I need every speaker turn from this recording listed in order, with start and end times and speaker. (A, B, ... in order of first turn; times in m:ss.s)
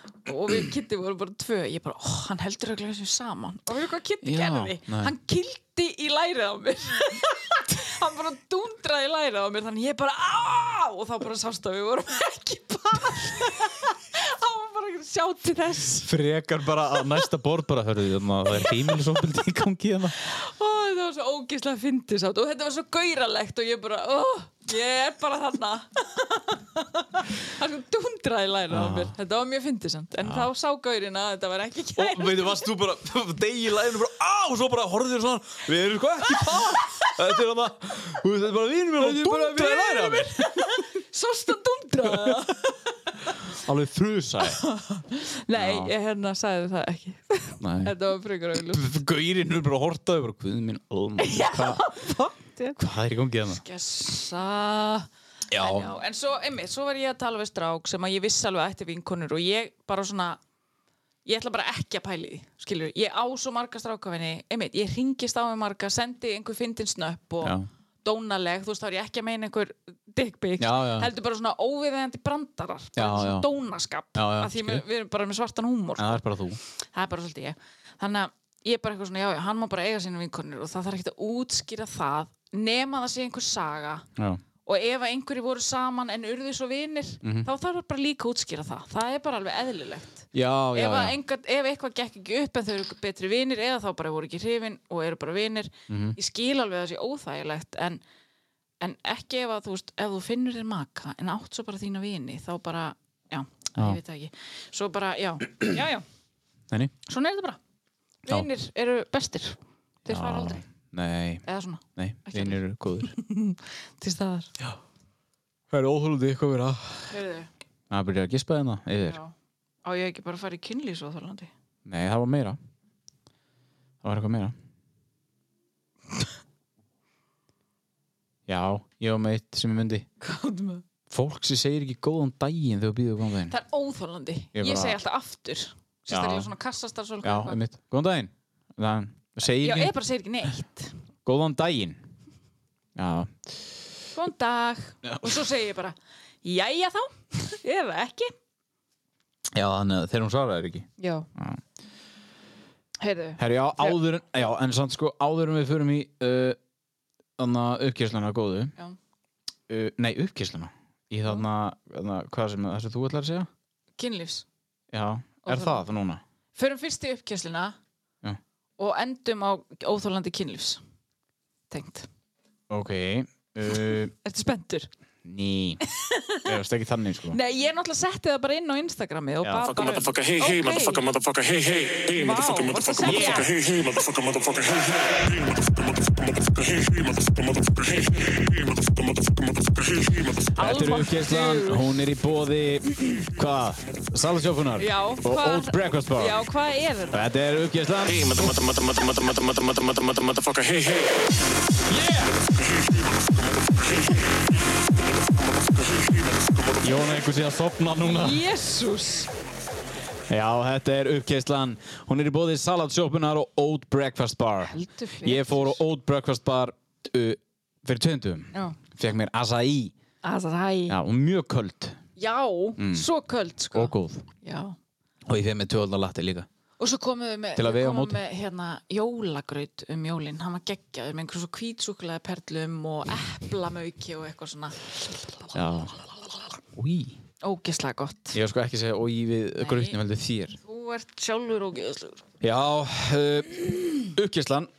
0:00.2-0:16.1 A
0:04.2-0:05.1 B
0:16.0-0:20.2 B
0:18.6-0:18.9 A
0:20.2-0:32.6 A
0:28.7-0:29.1 B
0:32.0-0:40.8 B
0:36.4-0:37.1 A
0:39.0-0:43.1 A
0:42.1-0:42.4 B
0:43.5-0:44.6 B
0:44.5-0:48.9 A
0:45.5-0:45.9 B
0:47.6-0:47.9 B
0:48.7-0:51.8 B
0:51.2-0:52.8 A
0:52.8-0:53.6 B
0:53.5-1:00.4 A
0:55.5-0:55.9 B
1:01.2-1:16.2 A
1:10.6-1:11.1 B
1:13.0-1:13.5 B
1:14.2-1:14.8 B
1:16.0-1:16.6 B
1:16.9-1:24.1 A
1:24.2-1:24.4 B
1:24.6-1:38.0 A
1:27.2-1:27.5 B
1:30.3-1:31.2 B
1:35.9-1:36.2 B
1:38.8-1:46.0 A
1:47.0-1:47.6 A
1:48.2-1:50.6 A
1:50.0-1:51.4 B
1:51.4-1:54.5 A
1:52.0-1:53.1 B
1:55.7-1:57.1 B
1:57.1-1:57.5 A
1:57.9-1:59.2 B
1:59.0-1:59.3 A
1:59.8-2:01.5 A
2:01.8-2:02.6 B
2:04.0-2:04.5 B
2:08.5-2:10.0 B
2:10.2-2:10.8 A
2:11.1-2:13.5 B
2:13.5-2:17.6 A
2:14.5-2:15.0 B
2:16.1-2:16.5 B
2:17.2-2:19.9 B
2:19.4-2:21.0 A
2:21.2-2:22.0 B
2:23.0-2:23.5 B
2:24.1-2:28.3 A
2:25.0-2:25.4 B
2:29.5-2:31.6 B
2:31.0-2:31.3 A
2:33.0-2:34.0 A
2:33.4-2:36.6 B
2:37.4-2:38.7 B
2:39.7-2:43.5 B
2:44.0-2:44.4 A
2:44.9-2:46.2 B
2:45.4-2:45.8 A
2:46.5-2:47.8 A
2:48.8-2:50.8 A
2:51.7-2:52.1 A
2:52.7-2:54.1 B
2:53.6-2:54.9 A
2:55.2-2:55.8 B
2:55.8-2:56.6 A
2:56.4-2:57.4 B
2:57.3-3:01.1 A
2:59.4-2:59.8 B
2:59.7-3:10.4 C
3:02.1-3:03.6 A
3:03.0-3:03.5 B
3:10.5-3:16.4 B
3:10.6-3:11.9 A
3:14.8-3:17.2 A
3:17.1-3:18.6 B
3:18.1-3:21.2 C
3:21.9-3:22.3 B
3:26.8-3:28.4 B
3:28.0-3:29.3 A
3:30.3-3:39.9 B
3:34.6-3:35.8 A
3:40.2-3:41.0 A
3:40.9-3:42.0 B
3:42.2-3:44.8 A
3:42.8-3:43.1 B
3:43.7-3:44.3 B
3:45.3-3:46.5 B
3:46.8-3:56.4 A
3:47.6-3:48.2 B
3:55.5-3:55.9 B
3:56.8-3:57.2 B
3:57.4-3:58.4 A
3:58.3-4:00.6 B
3:59.6-4:00.0 A
4:00.6-4:02.2 A
4:02.4-4:04.7 B